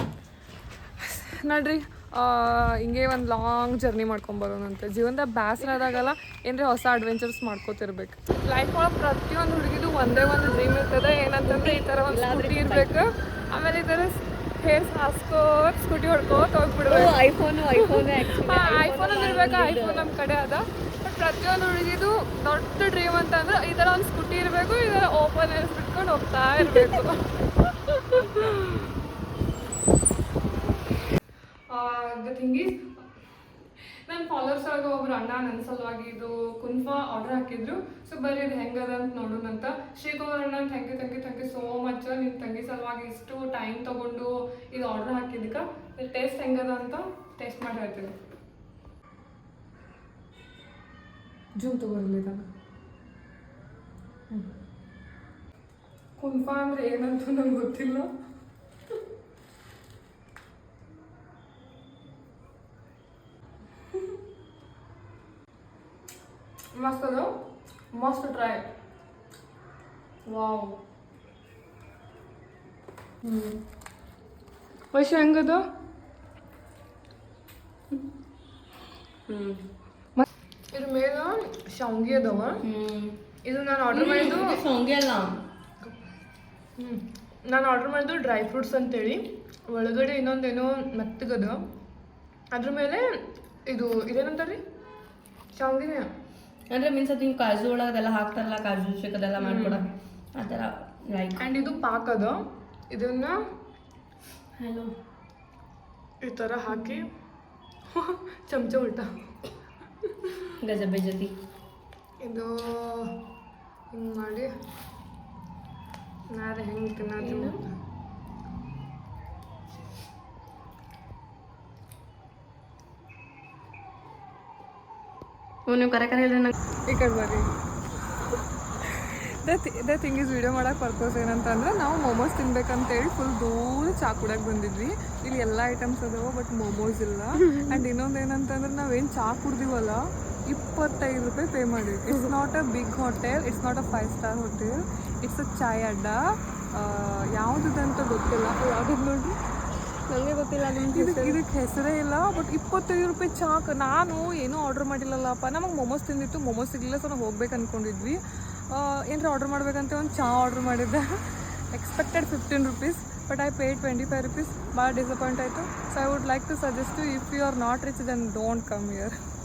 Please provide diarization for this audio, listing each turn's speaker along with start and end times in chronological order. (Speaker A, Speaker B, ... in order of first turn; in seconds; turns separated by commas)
Speaker A: 1.0-17.2, Speaker B: 11.4-12.9, Speaker B: 16.8-20.1, Speaker A: 17.8-28.8, Speaker B: 28.1-28.8, Speaker A: 31.7-33.0, Speaker A: 33.8-48.1, Speaker A: 51.6-52.4, Speaker A: 56.2-58.1, Speaker A: 66.7-67.4, Speaker A: 67.9-68.7, Speaker A: 70.2-70.8, Speaker B: 73.2-73.6, Speaker A: 74.9-75.7, Speaker B: 79.3-79.6, Speaker A: 80.2-82.6, Speaker B: 82.6-83.2, Speaker A: 83.4-84.6, Speaker B: 83.9-85.4, Speaker A: 86.8-91.6, Speaker A: 92.5-93.1, Speaker A: 93.7-94.6, Speaker A: 95.5-96.1, Speaker B: 96.7-101.4, Speaker A: 99.4-99.8, Speaker A: 101.3-102.4, Speaker A: 102.9-103.4, Speaker B: 104.6-104.9, Speaker A: 106.2-107.1, Speaker A: 107.9-109.2, Speaker B: 110.6-111.3, Speaker A: 112.2-113.1, Speaker A: 113.9-114.5, Speaker A: 116.3-117.7, Speaker B: 117.2-117.6, Speaker B: 125.7-126.5, Speaker A: 126.8-127.5, Speaker A: 128.9-149.4, Speaker B: 137.4-137.8, Speaker B: 150.0-151.4, Speaker A: 150.9-161.2, Speaker A: 161.7-169.1